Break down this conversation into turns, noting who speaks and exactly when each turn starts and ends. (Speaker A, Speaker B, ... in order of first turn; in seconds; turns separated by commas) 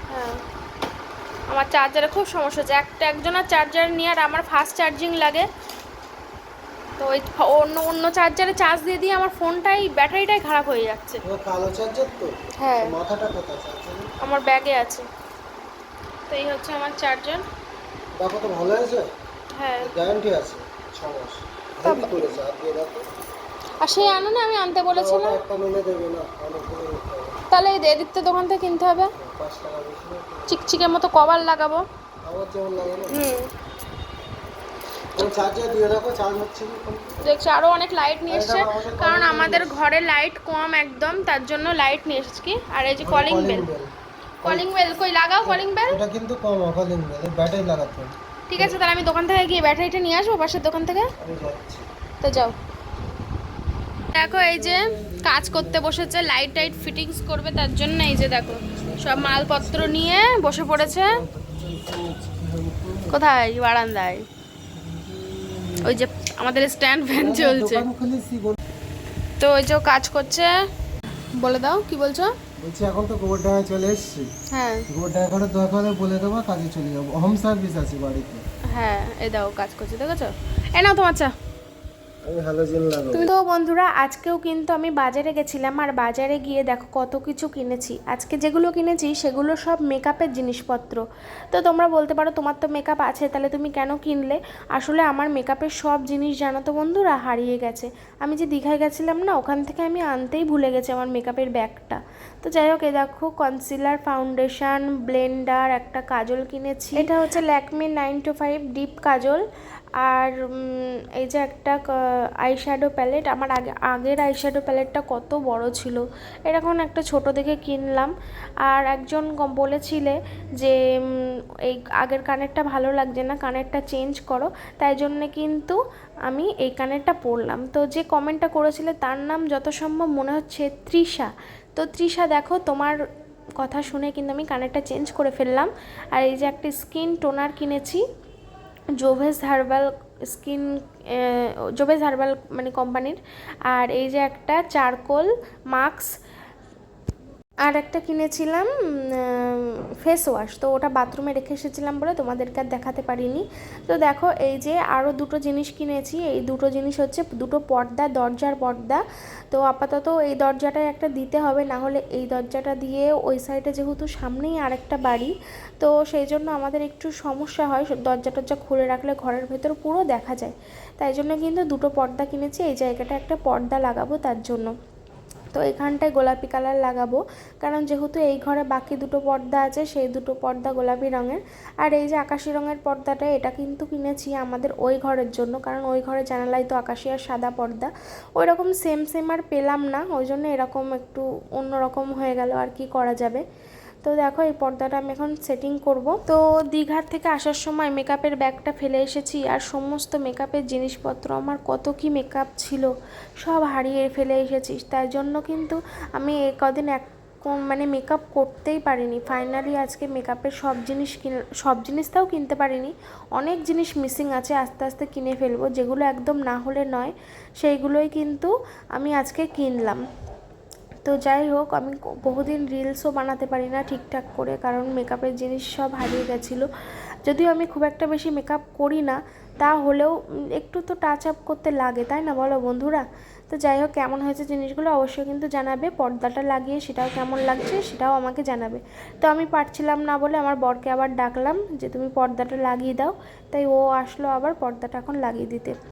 Speaker A: 0.1-0.4, Speaker A: 1.5-5.5, Speaker A: 7.0-11.2, Speaker B: 11.2-14.1, Speaker A: 12.6-12.9, Speaker A: 14.2-15.0, Speaker A: 16.3-17.4, Speaker B: 18.2-19.1, Speaker A: 19.6-19.9, Speaker B: 19.8-23.1, Speaker A: 21.8-22.4, Speaker A: 23.8-25.4, Speaker B: 24.0-24.3, Speaker B: 24.9-27.4, Speaker A: 27.5-29.1, Speaker B: 29.2-30.7, Speaker A: 30.5-31.8, Speaker B: 32.2-33.2, Speaker A: 33.1-33.5, Speaker B: 35.2-37.4, Speaker A: 37.2-43.7, Speaker B: 38.3-39.8, Speaker B: 43.0-43.9, Speaker A: 44.4-46.0, Speaker B: 44.5-44.7, Speaker B: 45.5-48.8, Speaker A: 48.5-51.1, Speaker B: 51.2-51.9, Speaker A: 52.2-52.5, Speaker B: 54.1-56.5, Speaker A: 54.1-61.2, Speaker B: 58.6-63.2, Speaker A: 63.1-64.2, Speaker B: 64.7-65.9, Speaker A: 65.8-67.9, Speaker B: 67.1-68.6, Speaker A: 69.4-70.6, Speaker A: 71.4-72.3, Speaker B: 72.6-74.3, Speaker A: 74.5-74.8, Speaker B: 74.9-78.4, Speaker A: 78.7-81.3, Speaker B: 82.2-83.3, Speaker C: 83.1-91.0, Speaker C: 91.5-109.4, Speaker A: 106.9-107.3, Speaker C: 110.0-110.3, Speaker C: 111.2-111.9, Speaker C: 112.4-118.1, Speaker C: 118.7-133.0, Speaker C: 133.6-138.0, Speaker C: 139.0-143.2, Speaker C: 143.7-146.1, Speaker C: 147.7-174.7, Speaker C: 175.5-193.4, Speaker C: 194.0-220.0, Speaker C: 221.1-226.7, Speaker C: 227.2-245.8